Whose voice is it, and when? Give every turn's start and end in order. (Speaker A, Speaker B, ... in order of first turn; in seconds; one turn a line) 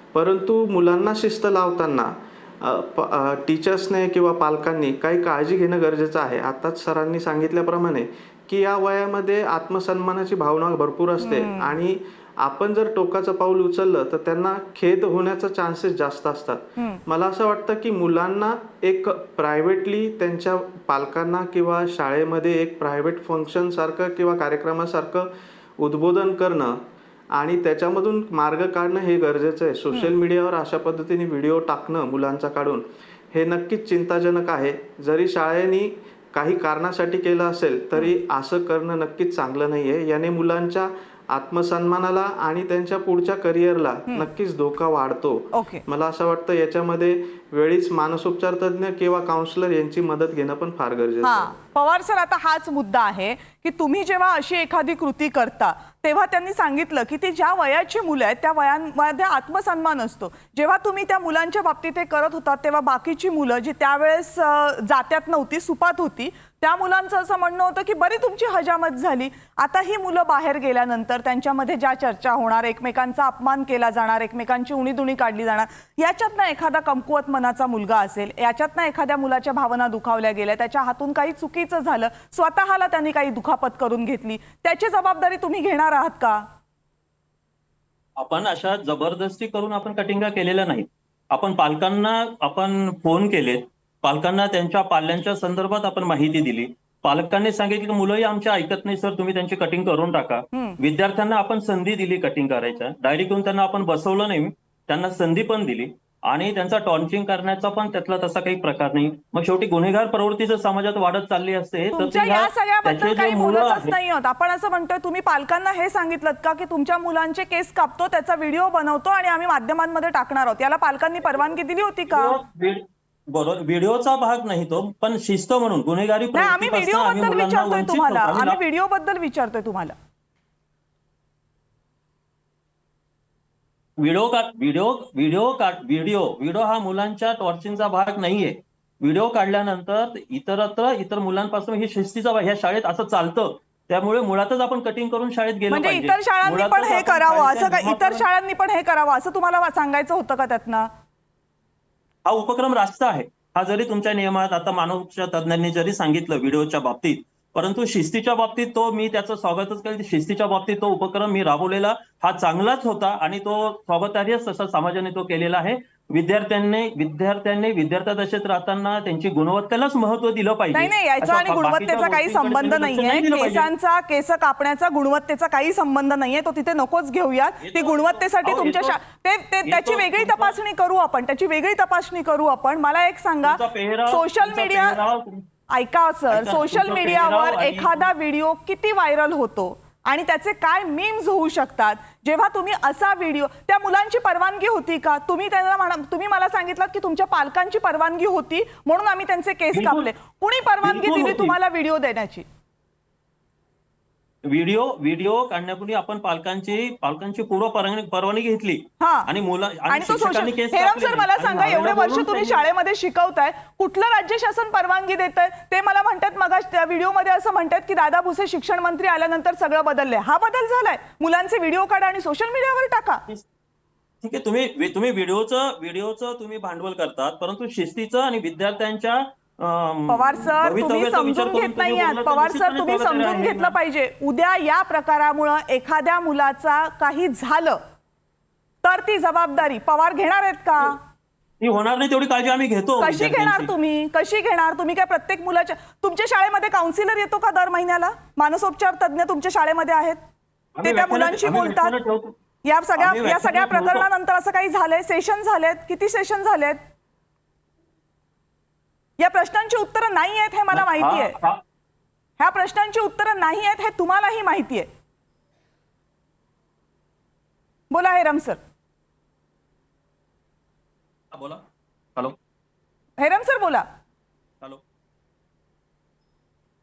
Speaker A: 0.1-51.5
Speaker B: 11.2-11.7
Speaker B: 45.5-45.8
Speaker B: 51.2-86.5
Speaker C: 88.2-113.9
Speaker B: 111.9-122.4
Speaker C: 122.1-128.6
Speaker B: 126.3-129.9
Speaker C: 134.0-148.2
Speaker B: 145.7-150.9
Speaker C: 152.2-173.7
Speaker B: 170.7-185.0
Speaker C: 177.6-179.0
Speaker C: 179.6-180.6
Speaker C: 183.4-185.4
Speaker B: 185.7-202.4
Speaker C: 186.3-188.1
Speaker C: 199.7-200.1
Speaker C: 200.8-201.6
Speaker C: 204.4-212.6
Speaker B: 209.0-209.3
Speaker B: 209.9-223.2
Speaker C: 224.2-233.7
Speaker B: 230.1-237.8
Speaker B: 238.8-241.0
Speaker C: 241.6-243.7
Speaker B: 243.0-250.2
Speaker C: 250.8-252.3
Speaker B: 250.8-251.9
Speaker B: 252.6-256.8
Speaker C: 253.0-254.1
Speaker B: 259.2-261.4
Speaker C: 260.7-261.6
Speaker B: 262.4-264.9
Speaker B: 267.9-268.6
Speaker C: 271.3-271.6
Speaker B: 273.2-273.9